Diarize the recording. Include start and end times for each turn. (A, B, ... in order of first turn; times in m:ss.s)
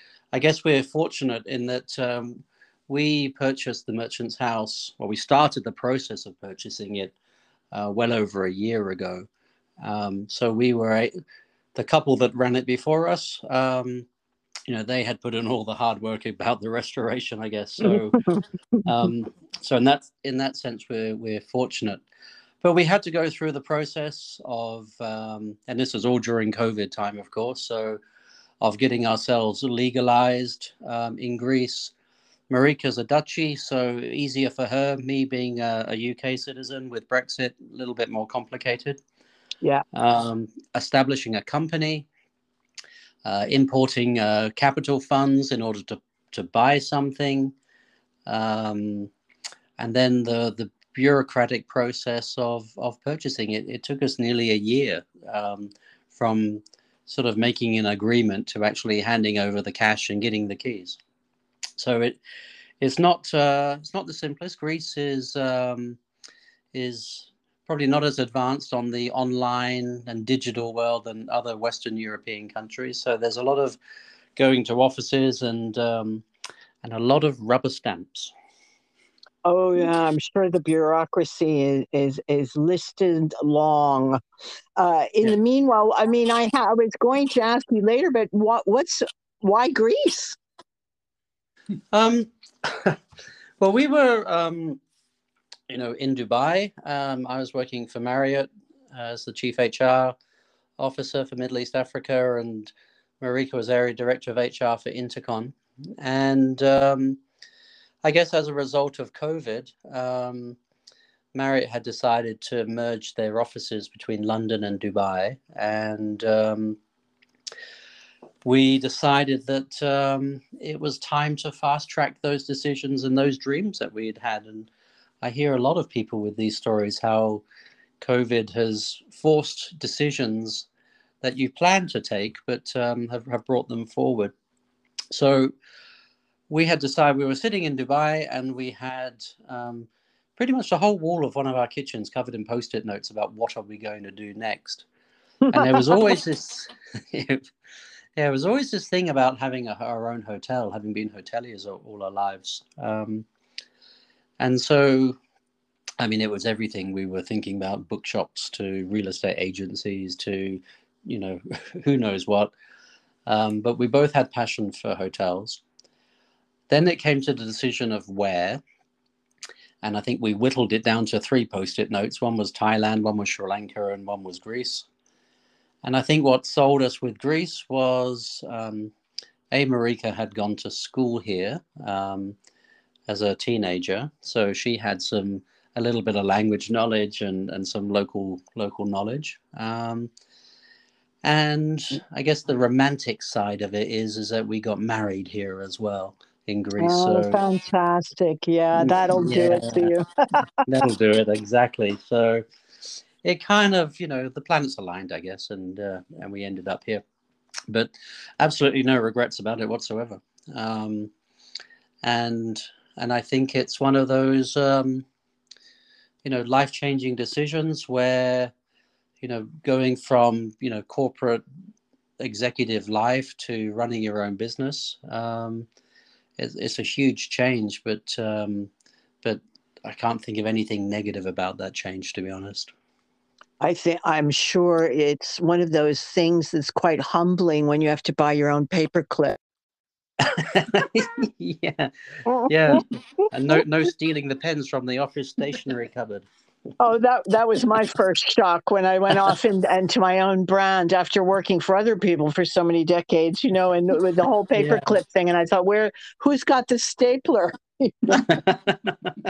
0:00.3-0:07.2 A
0:07.7-0:09.3 A
0:09.8-0:11.1 A
0:11.8-0:14.1 A
0:14.7-0:18.3 A
0:18.8-0:22.0 A
0:22.6-0:28.0 A
0:28.6-0:31.9 A
0:32.5-0:39.0 A
0:39.9-0:42.1 A
0:43.2-0:47.5 A
0:48.3-0:49.1 A
0:49.8-1:01.0 A
1:01.8-1:02.2 A
1:02.8-1:06.0 A
1:06.7-1:13.8 A
1:14.4-1:16.2 A
1:16.8-1:18.3 A
1:19.4-1:24.2 B
1:24.8-1:30.4 B
1:31.9-1:33.0 A
1:33.6-1:34.8 A
1:35.7-1:40.2 A
1:40.8-1:47.2 A
1:48.0-1:50.6 A
1:51.3-1:56.8 A
1:58.4-2:04.7 A
2:05.2-2:07.4 A
2:08.0-2:10.7 A
2:11.2-2:14.3 A
2:15.1-2:15.5 A
2:16.5-2:24.9 A
2:25.4-2:26.1 B
2:25.5-2:27.5 A
2:28.2-2:33.3 A
2:34.4-2:35.2 A
2:36.0-2:42.5 A
2:43.3-2:45.6 A
2:46.7-2:48.6 A
2:49.8-2:54.9 A
2:55.8-2:58.9 A
2:59.5-3:02.4 A
3:03.1-3:10.1 A
3:11.2-3:17.4 A
3:16.8-3:20.1 B
3:18.8-3:19.9 A
3:20.6-3:22.4 A
3:23.2-3:27.0 A
3:27.7-3:31.1 A
3:32.0-3:35.0 A
3:36.2-3:38.5 A
3:39.2-3:41.4 A
3:42.2-3:45.7 A
3:46.4-3:48.7 A
3:49.2-3:52.7 A
3:53.6-3:59.4 B
4:00.2-4:06.3 A
4:02.3-4:02.8 B
4:06.8-4:18.4 B
4:14.6-4:14.9 A
4:18.2-4:18.9 A